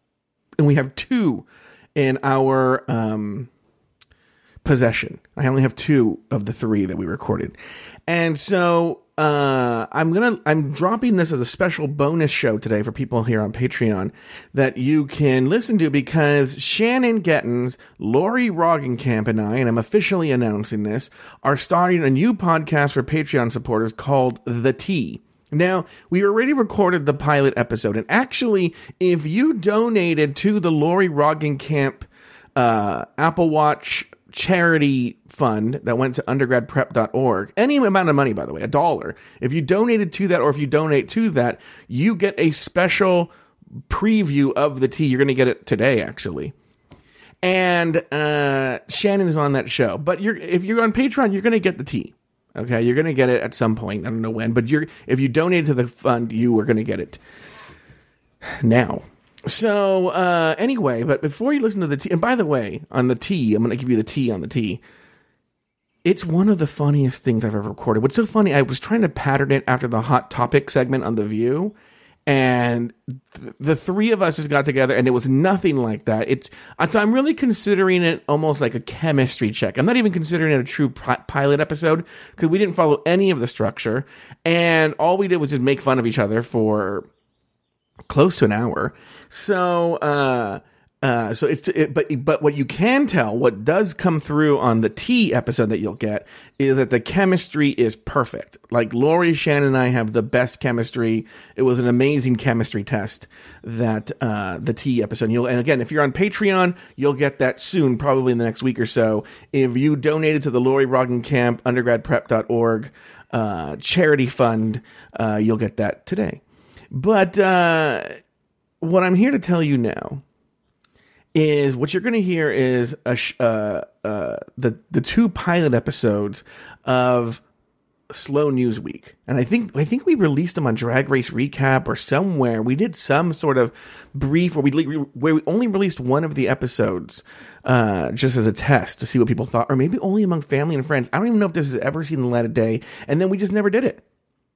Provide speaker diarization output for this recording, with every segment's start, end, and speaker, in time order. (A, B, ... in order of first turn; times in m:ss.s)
0:00.6-0:03.5 A
0:04.6-0:07.6 A
0:08.1-0:43.3 A
0:43.9-0:46.5 A
0:47.4-0:57.2 A
0:58.4-1:04.8 A
1:06.0-1:11.7 A
1:12.2-1:27.1 A
1:28.1-1:58.2 A
1:58.8-2:00.2 A
2:01.3-2:07.4 A
2:08.1-2:24.0 A